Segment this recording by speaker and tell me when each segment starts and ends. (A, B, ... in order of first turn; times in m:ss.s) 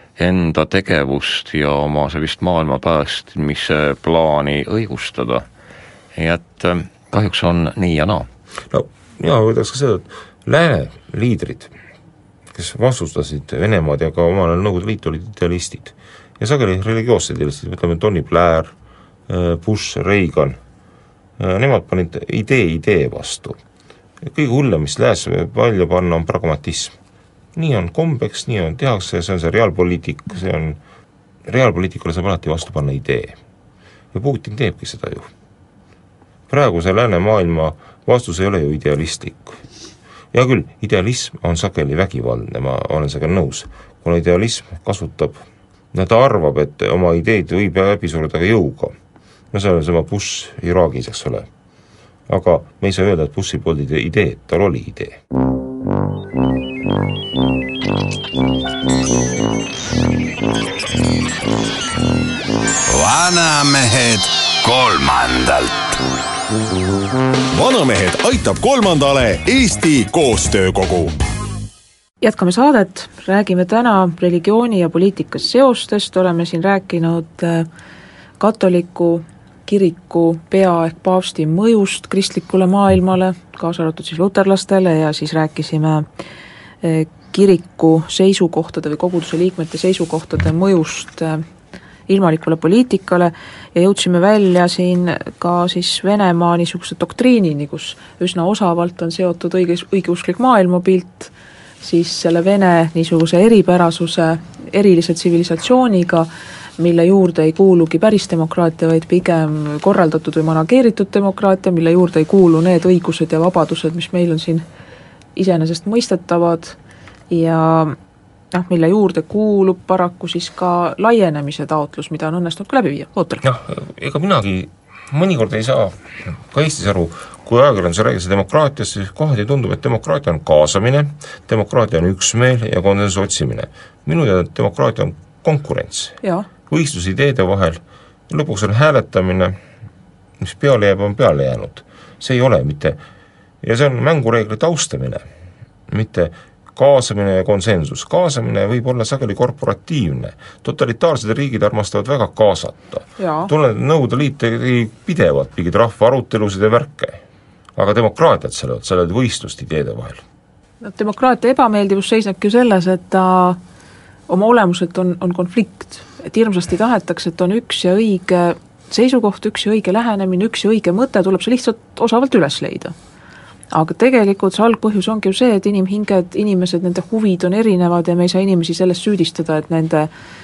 0:00.2-0:05.4 A
0:06.1-0:08.3 A
0:08.7-0:11.7 B
0:12.5-0:18.7 B
0:19.3-0:20.6 B
0:21.4-0:23.6 B
0:24.2-0:27.0 B
0:27.5-0:30.8 B
0:31.4-0:33.4 B
0:34.1-0:35.3 B
0:36.5-0:39.6 B
0:40.3-0:45.4 B
0:45.9-0:49.0 B
0:49.5-0:51.5 B
0:52.3-0:55.2 B
1:02.9-1:05.9 C
1:07.5-1:11.2 D
1:12.2-1:17.6 E
1:18.4-1:26.0 E
1:26.8-1:31.4 E
1:32.1-1:54.6 E
1:55.4-1:56.8 E
1:57.3-1:58.0 E
1:58.5-2:03.4 E
2:03.4-2:19.6 B
2:16.2-2:16.5 E
2:20.4-2:23.0 B
2:23.6-2:25.2 B
2:25.9-2:37.2 B
2:33.2-2:33.5 E
2:37.8-2:40.2 B
2:40.8-2:43.6 E
2:44.3-2:52.9 E
2:53.7-3:00.1 E